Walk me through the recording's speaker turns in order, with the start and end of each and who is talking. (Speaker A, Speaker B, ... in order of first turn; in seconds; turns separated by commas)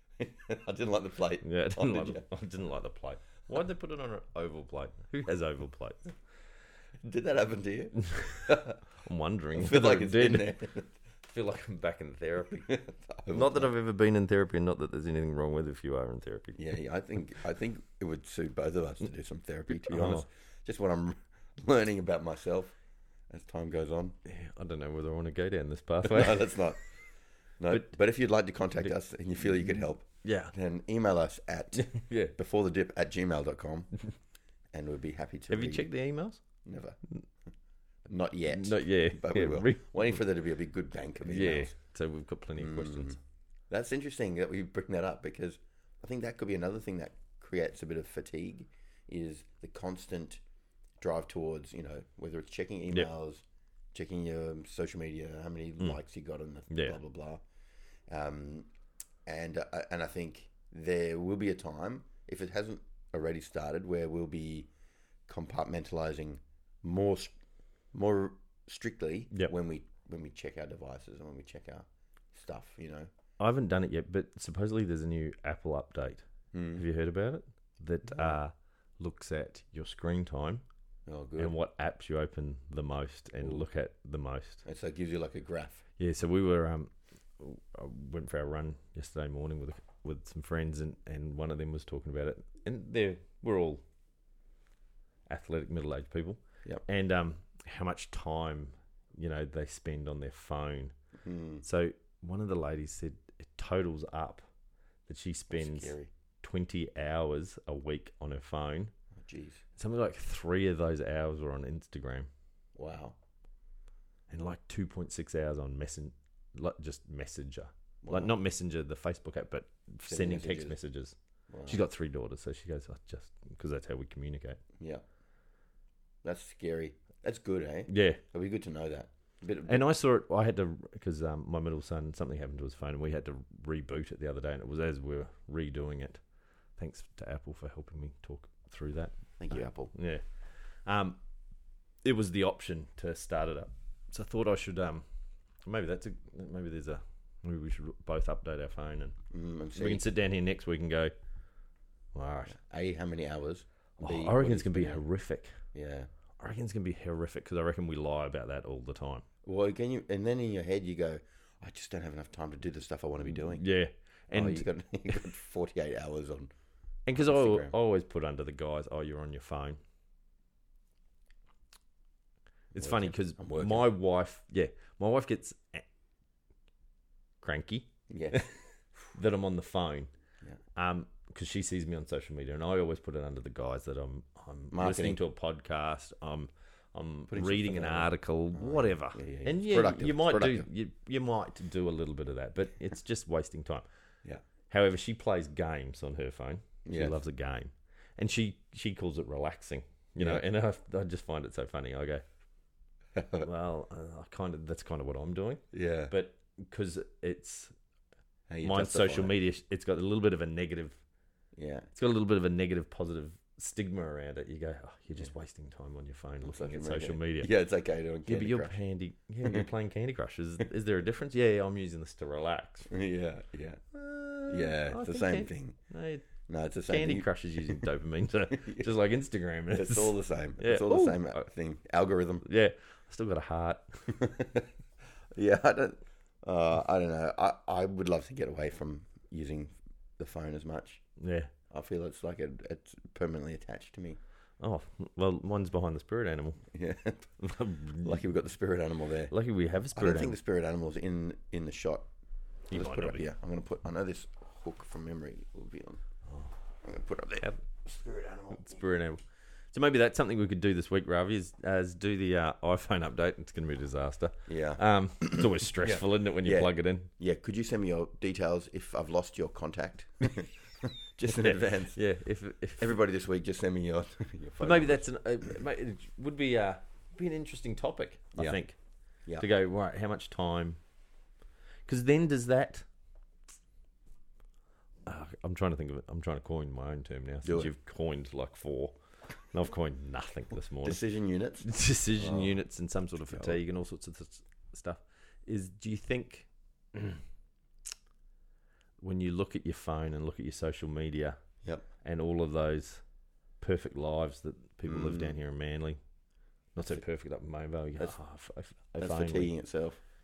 Speaker A: 0.2-2.3, Speaker B: 1.4-6.1, Speaker A: 7.0-8.8, Speaker B: 8.1-10.6, Speaker A: 9.5-10.9, Speaker B: 11.2-12.7, Speaker A: 12.5-13.7, Speaker B: 13.3-16.6, Speaker A: 16.6-22.8, Speaker B: 19.8-20.2, Speaker A: 23.3-24.2, Speaker B: 24.2-26.6, Speaker A: 26.0-26.8, Speaker A: 27.6-34.0, Speaker B: 29.6-30.5, Speaker B: 31.8-32.3, Speaker A: 34.7-35.9, Speaker B: 35.5-36.4, Speaker A: 36.6-37.0, Speaker A: 38.0-41.7, Speaker B: 38.5-40.1, Speaker B: 41.2-43.2, Speaker A: 42.6-43.2, Speaker A: 43.7-50.4, Speaker A: 51.0-53.4, Speaker A: 53.9-57.4, Speaker B: 56.7-57.0, Speaker A: 58.1-58.7, Speaker A: 59.3-64.7, Speaker A: 65.3-67.3, Speaker A: 67.9-73.1, Speaker B: 73.4-76.2, Speaker A: 76.5-76.8, Speaker B: 76.8-80.6, Speaker A: 78.1-78.3, Speaker A: 81.1-81.5, Speaker B: 81.4-84.6, Speaker A: 84.7-85.9, Speaker B: 86.0-93.8, Speaker B: 95.3-100.9, Speaker A: 101.2-101.6, Speaker B: 101.6-104.4, Speaker B: 105.1-108.9, Speaker A: 105.5-106.1, Speaker A: 109.2-109.6, Speaker B: 109.8-112.3, Speaker A: 112.8-113.2, Speaker B: 114.3-121.2, Speaker A: 118.0-118.4, Speaker A: 120.1-120.8, Speaker A: 121.5-121.8, Speaker B: 121.7-124.6, Speaker A: 126.2-129.8, Speaker B: 127.9-128.2, Speaker B: 129.7-136.2, Speaker B: 136.8-141.2, Speaker A: 139.4-139.9, Speaker B: 142.0-145.0, Speaker B: 145.6-149.2, Speaker A: 149.3-150.0, Speaker B: 149.8-151.1, Speaker B: 152.1-152.6, Speaker A: 152.5-155.0, Speaker B: 154.0-155.6, Speaker A: 155.7-156.1, Speaker B: 156.4-159.2, Speaker A: 159.4-163.6, Speaker B: 163.3-164.7, Speaker A: 164.3-166.5, Speaker B: 167.1-169.8, Speaker A: 167.2-167.7, Speaker A: 172.7-173.9, Speaker B: 172.7-175.8, Speaker B: 177.4-178.5, Speaker A: 178.1-178.5, Speaker B: 179.1-180.1, Speaker B: 180.8-193.8, Speaker A: 184.7-185.2, Speaker A: 187.3-190.7, Speaker B: 194.7-202.2, Speaker A: 196.9-197.2, Speaker A: 203.2-203.5, Speaker B: 203.4-207.7, Speaker A: 205.7-206.1, Speaker A: 208.5-209.4, Speaker B: 208.6-211.0, Speaker A: 211.6-211.9, Speaker B: 211.9-217.5, Speaker A: 216.4-218.8, Speaker B: 218.3-222.9, Speaker A: 222.9-223.8, Speaker B: 223.9-226.3, Speaker A: 224.5-225.8, Speaker A: 226.5-227.9, Speaker B: 226.9-231.4, Speaker A: 228.6-228.9, Speaker A: 229.7-232.4, Speaker B: 232.4-234.1, Speaker A: 234.1-234.7, Speaker A: 235.3-241.0, Speaker B: 241.2-241.5, Speaker A: 241.7-244.2, Speaker B: 244.6-246.6, Speaker A: 246.7-247.4, Speaker B: 247.4-248.2, Speaker A: 248.0-249.3, Speaker B: 249.3-250.4, Speaker A: 249.9-252.1, Speaker A: 252.7-256.0, Speaker B: 252.7-253.2, Speaker A: 256.8-258.8, Speaker B: 258.5-259.2, Speaker B: 259.7-267.1, Speaker A: 264.5-272.0, Speaker B: 271.3-273.0, Speaker A: 272.8-275.0, Speaker B: 274.6-278.8, Speaker B: 279.4-280.8, Speaker B: 281.9-282.9, Speaker B: 285.1-291.0, Speaker A: 287.4-287.7, Speaker A: 290.8-292.6, Speaker B: 291.6-297.2, Speaker A: 293.3-293.6, Speaker B: 299.0-301.4, Speaker B: 302.0-303.0, Speaker B: 303.6-306.0, Speaker A: 304.9-305.4, Speaker B: 306.8-309.5, Speaker A: 309.0-310.0